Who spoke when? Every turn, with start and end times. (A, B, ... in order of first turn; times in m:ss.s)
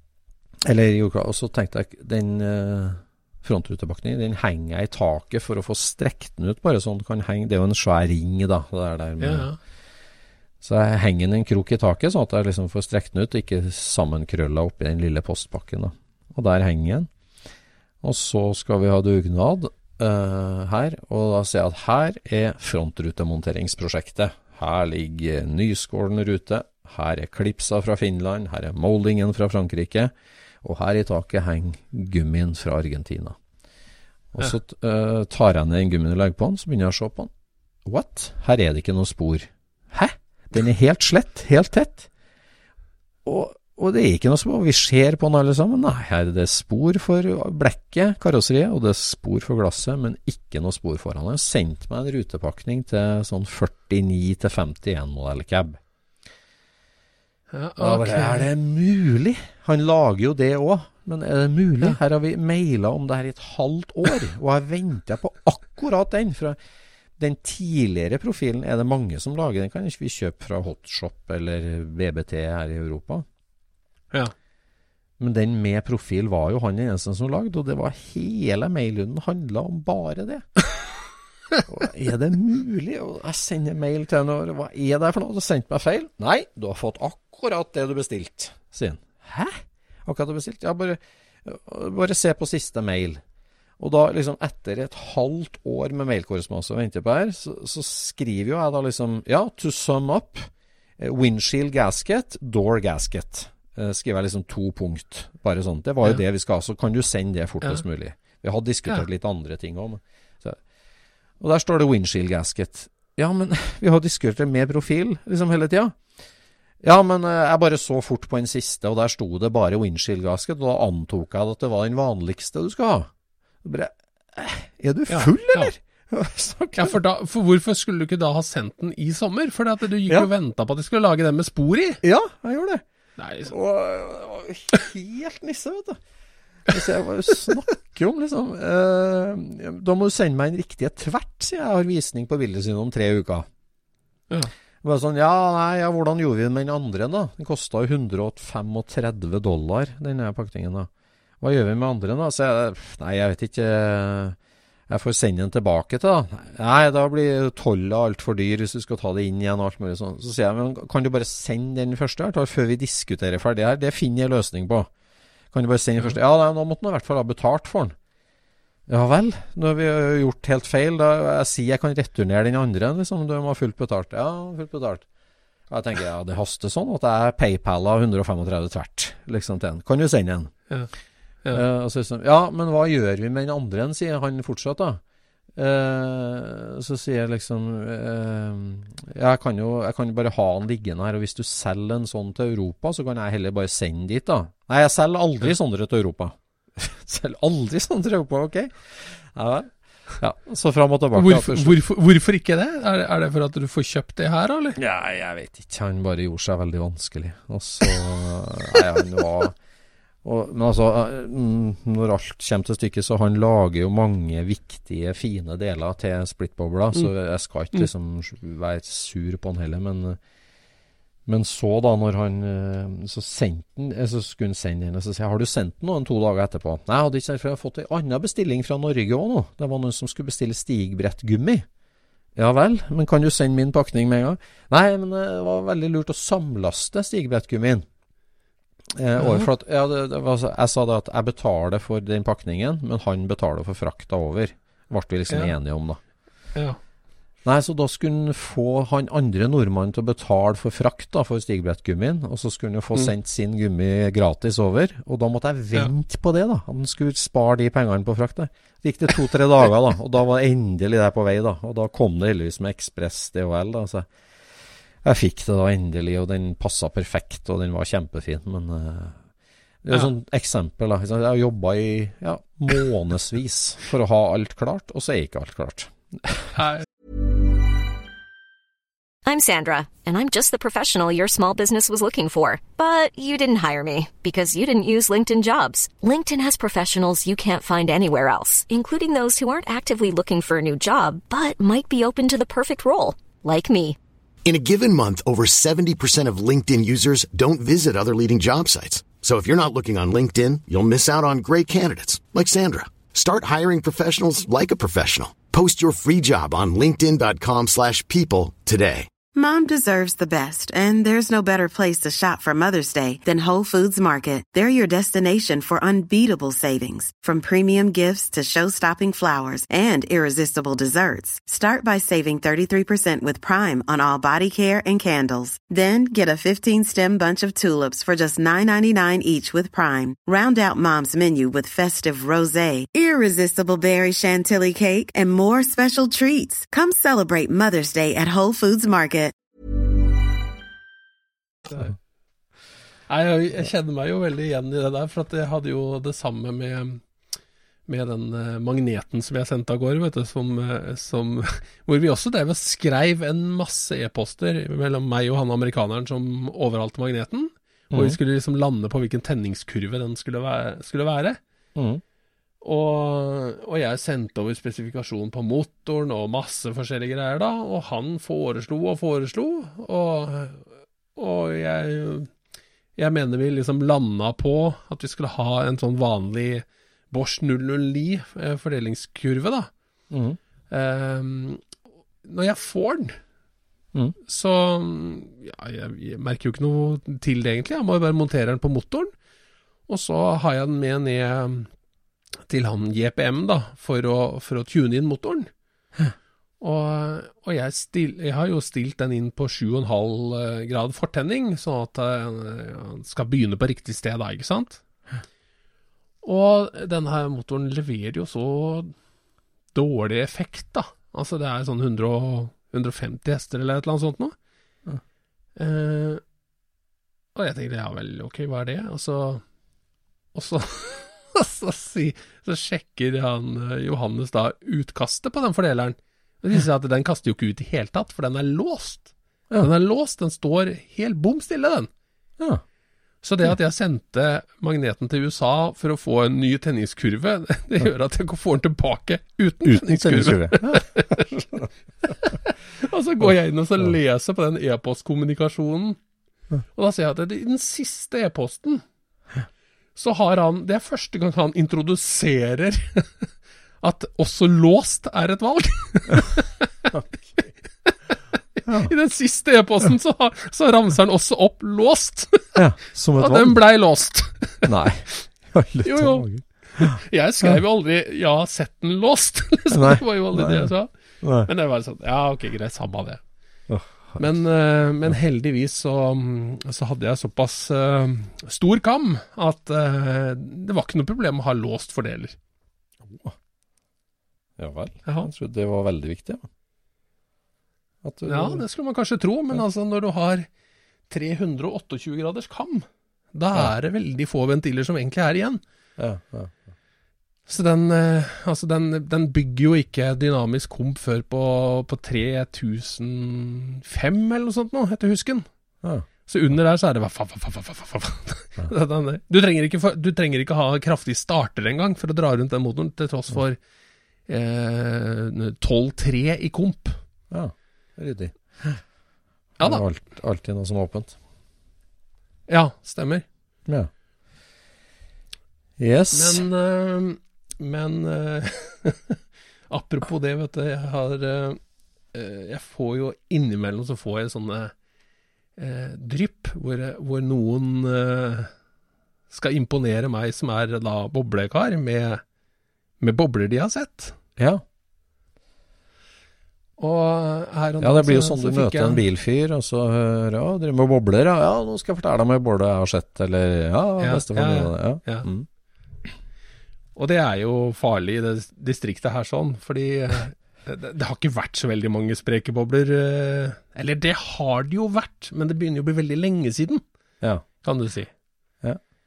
0:00.6-0:09.5 A
0:09.2-0:09.6 B
0:10.6-0:17.1 A
0:18.0-0:33.4 A
0:34.3-0:37.3 A
0:37.8-0:42.1 A
0:43.2-0:55.8 A
0:57.5-0:58.5 B
0:57.8-1:06.6 A
1:07.2-1:13.2 A
1:15.2-1:20.5 A
1:21.7-1:33.2 A
1:33.8-1:50.6 A
1:51.4-1:56.0 A
1:56.8-2:03.1 A
2:03.6-2:07.0 A
2:05.1-2:05.7 B
2:06.8-2:12.0 B
2:12.0-2:12.8 A
2:13.2-2:13.5 B
2:13.4-2:16.0 A
2:16.7-2:23.5 A
2:24.8-2:30.9 A
2:31.4-2:34.4 A
2:34.9-2:44.9 A
2:45.5-2:48.0 A
2:48.9-2:55.1 A
2:55.7-3:00.5 A
3:01.5-3:05.0 A
3:05.6-3:21.8 A
3:21.2-3:24.8 B
3:24.8-3:29.6 A
3:30.2-3:40.2 A
3:41.3-3:51.7 A
3:52.4-3:57.9 A
3:58.9-4:06.0 A
3:59.2-3:59.5 B
4:07.4-4:24.1 A
4:25.0-4:29.2 A
4:29.8-4:36.6 A
4:36.6-4:36.8 B
4:39.3-4:54.0 C
4:54.4-5:09.1 D
5:09.3-5:39.3 E
5:41.7-5:41.9 B
5:43.1-5:47.0 B
5:47.9-6:01.4 B
5:57.9-5:58.2 A
6:01.8-6:02.0 A
6:02.6-6:12.3 B
6:13.0-6:19.7 B
6:20.1-6:20.4 A
6:20.7-6:21.6 B
6:22.2-6:23.2 B
6:24.3-6:29.1 B
6:29.9-6:31.7 B
6:32.5-6:35.5 B
6:36.6-6:44.8 B
6:46.2-6:48.9 B
6:49.7-6:54.4 B
6:55.6-6:56.2 B
6:57.4-6:59.4 B
7:00.3-7:11.9 B
7:13.2-7:21.2 B
7:19.6-7:21.7 A
7:22.3-7:26.0 B
7:26.8-7:28.8 B
7:30.0-7:33.3 B
7:33.8-7:36.7 B
7:36.9-7:37.3 A
7:37.8-7:42.5 B
7:38.7-7:38.9 A
7:42.6-7:43.6 A
7:43.2-7:44.7 B
7:44.6-7:47.6 A
7:45.8-7:50.9 B
7:49.7-7:50.7 A
7:51.2-7:51.5 A
7:51.4-7:53.2 B
7:53.7-7:54.2 A
7:54.2-8:02.4 B
8:03.0-8:03.4 A
8:04.6-8:06.5 A
8:08.0-8:08.6 A
8:08.2-8:10.5 B
8:11.1-8:15.6 B
8:16.0-8:16.6 A
8:17.5-8:25.5 B
8:26.3-8:33.6 B
8:34.3-8:37.0 B
8:37.3-8:38.8 A
8:39.6-8:39.8 B
8:39.6-8:41.2 A
8:42.5-8:43.2 B
8:45.8-8:46.4 A
8:46.1-8:51.6 B
8:52.1-8:54.7 B
8:55.6-8:58.5 B
8:59.3-9:02.2 B
9:03.0-9:04.2 B
9:04.4-9:04.6 A
9:06.8-9:09.0 B
9:07.8-9:15.5 A
9:14.0-9:15.3 B
9:17.0-9:26.8 B
9:27.6-9:28.1 B